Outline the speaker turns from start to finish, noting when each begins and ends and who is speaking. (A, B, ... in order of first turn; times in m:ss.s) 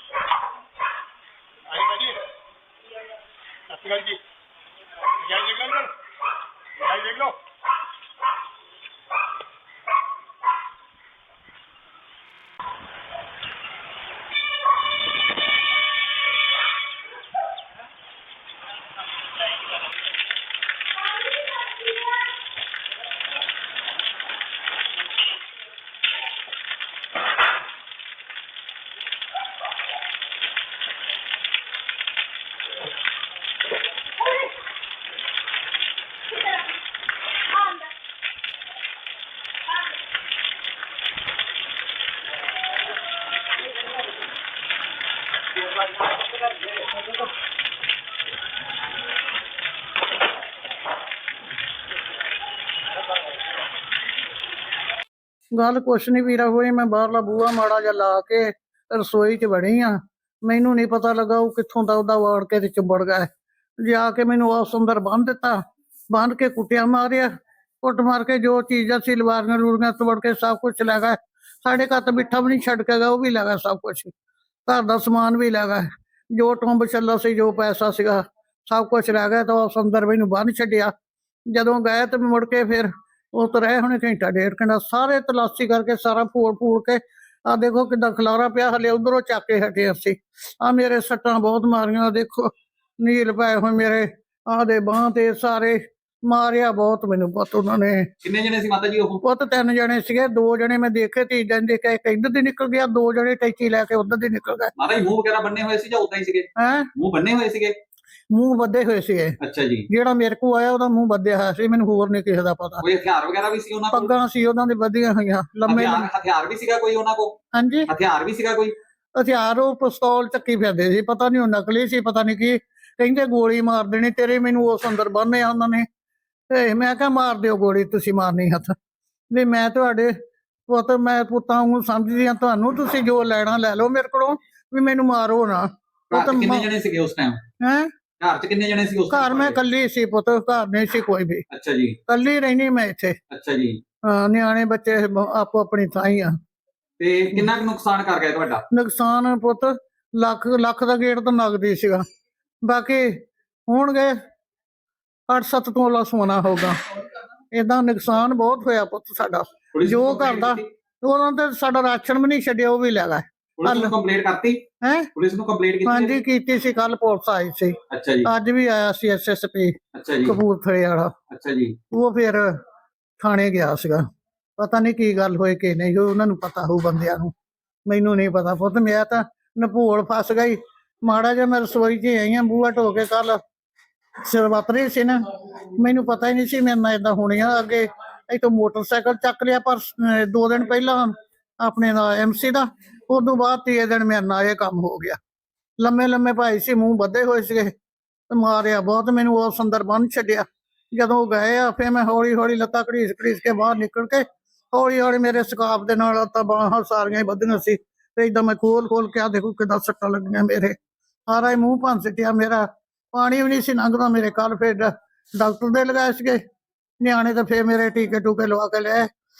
0:01.7-0:02.2 A
0:03.7-0:04.2 A
0:05.2-0:05.9 A
0:06.8-0:07.4 A
0:55.5-1:03.3 B
1:03.8-1:05.6 B
1:06.1-1:07.3 B
1:07.8-1:14.1 B
1:14.6-1:20.9 B
1:21.5-1:38.1 B
1:38.2-1:39.2 C
1:39.2-1:44.7 B
1:44.8-1:47.7 C
1:46.6-1:46.9 B
1:48.3-1:49.4 B
1:49.4-1:49.9 C
1:49.9-1:52.8 B
1:52.8-1:54.1 C
1:53.9-1:56.1 B
1:55.6-1:57.3 C
1:57.5-1:57.9 B
1:57.9-1:58.7 C
1:59.2-2:05.8 B
2:06.5-2:08.7 B
2:09.3-2:10.1 B
2:10.7-2:16.7 B
2:16.1-2:17.4 C
2:17.6-2:17.9 B
2:18.2-2:19.6 C
2:19.1-2:21.4 B
2:21.5-2:22.0 C
2:22.1-2:23.2 B
2:23.3-2:23.8 C
2:24.0-2:26.3 B
2:27.0-2:28.6 C
2:28.7-2:32.0 B
2:32.6-2:33.1 B
2:33.7-2:34.1 B
2:35.3-2:36.8 B
2:37.5-2:43.9 B
2:39.7-2:40.6 C
2:43.6-2:44.6 C
2:44.8-2:45.1 B
2:45.2-2:46.2 C
2:45.8-2:51.1 B
2:47.9-2:48.3 C
2:49.9-2:50.4 C
2:51.3-2:51.8 C
2:51.9-2:52.5 B
2:53.2-2:54.0 B
2:54.6-2:57.3 B
2:57.9-3:03.4 B
3:04.2-3:15.2 B
3:15.8-3:17.7 B
3:18.3-3:30.8 B
3:31.3-3:36.4 B
3:37.0-3:39.1 B